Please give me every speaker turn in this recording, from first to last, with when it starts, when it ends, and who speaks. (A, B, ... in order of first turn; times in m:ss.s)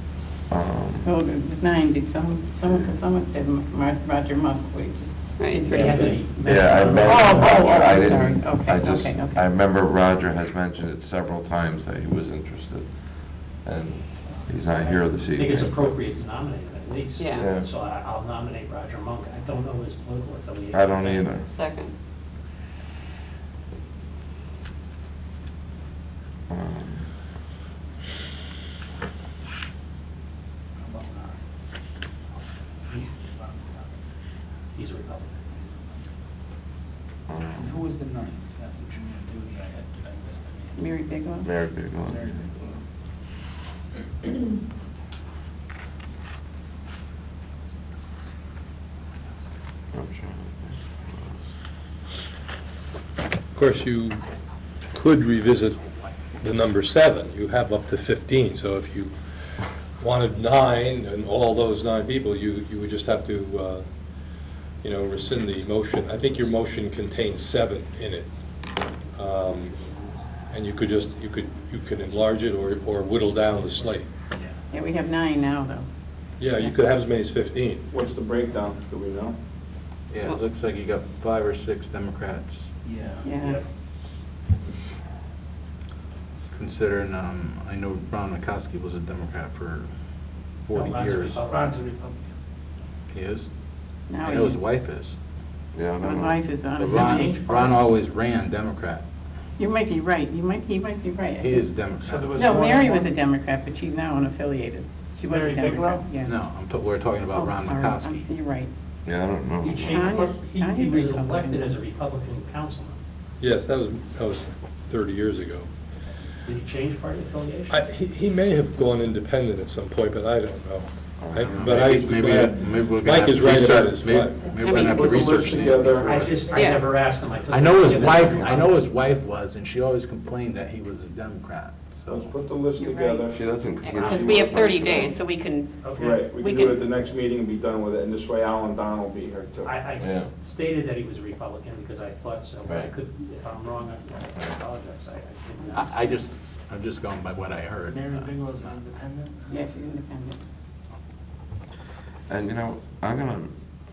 0:00.5-0:01.1 A
0:01.0-0:09.4 B
0:02.6-0:03.0 A
0:05.4-0:06.0 C
0:05.7-0:08.2 D
0:05.8-0:06.2 E
0:06.2-0:16.0 A
0:14.9-0:21.4 D
0:17.2-0:17.4 C
0:17.4-0:17.7 A
0:20.7-0:21.5 A
0:21.4-0:21.9 C
0:26.5-0:27.1 A
0:30.8-0:31.4 F
0:32.9-0:34.0 F
0:34.8-0:35.4 D
0:35.6-0:36.1 F
0:37.3-0:37.8 A
0:37.5-0:40.8 F
0:40.8-0:41.5 B
0:41.4-0:42.8 A
0:42.0-0:42.5 F
0:49.9-0:51.5 A
0:53.5-0:54.2 G
0:54.9-0:55.8 G
0:56.4-0:59.1 G
0:59.9-1:03.9 G
1:04.8-1:08.3 G
1:09.2-1:09.8 G
1:10.5-1:14.1 G
1:14.7-1:15.9 B
1:16.4-1:17.9 G
1:17.9-1:19.4 E
1:20.1-1:22.7 H
1:22.8-1:23.3 F
1:23.2-1:23.6 B
1:23.3-1:23.6 D
1:26.5-1:29.9 H
1:30.6-1:31.4 H
1:30.7-1:31.8 D
1:31.0-1:32.3 F
1:33.1-1:33.5 H
1:34.1-1:34.6 B
1:34.2-1:35.2 H
1:35.7-1:36.4 A
1:36.0-1:37.5 B
1:36.8-1:39.0 H
1:36.9-1:37.9 D
1:39.6-1:41.7 B
1:41.4-1:42.5 H
1:42.0-1:43.2 F
1:42.4-1:46.4 B
1:45.2-1:46.2 F
1:46.2-1:48.3 H
1:47.3-1:48.7 B
1:49.0-1:50.1 A
1:49.6-1:53.0 D
1:49.8-1:51.8 B
1:53.4-1:55.7 G
1:56.4-1:57.8 D
1:57.7-2:04.4 G
2:01.2-2:02.5 A
2:01.5-2:06.6 H
2:04.6-2:05.0 C
2:04.7-2:06.4 E
2:06.0-2:08.8 D
2:06.5-2:06.9 C
2:07.5-2:12.3 H
2:12.1-2:13.4 E
2:12.8-2:13.2 B
2:13.3-2:15.2 A
2:13.8-2:16.8 C
2:13.9-2:14.3 D
2:14.0-2:14.9 E
2:15.8-2:16.3 D
2:15.9-2:19.9 E
2:19.6-2:26.1 D
2:20.0-2:20.3 A
2:22.6-2:22.9 A
2:25.7-2:28.7 H
2:27.8-2:29.6 F
2:29.5-2:30.4 B
2:32.3-2:33.6 A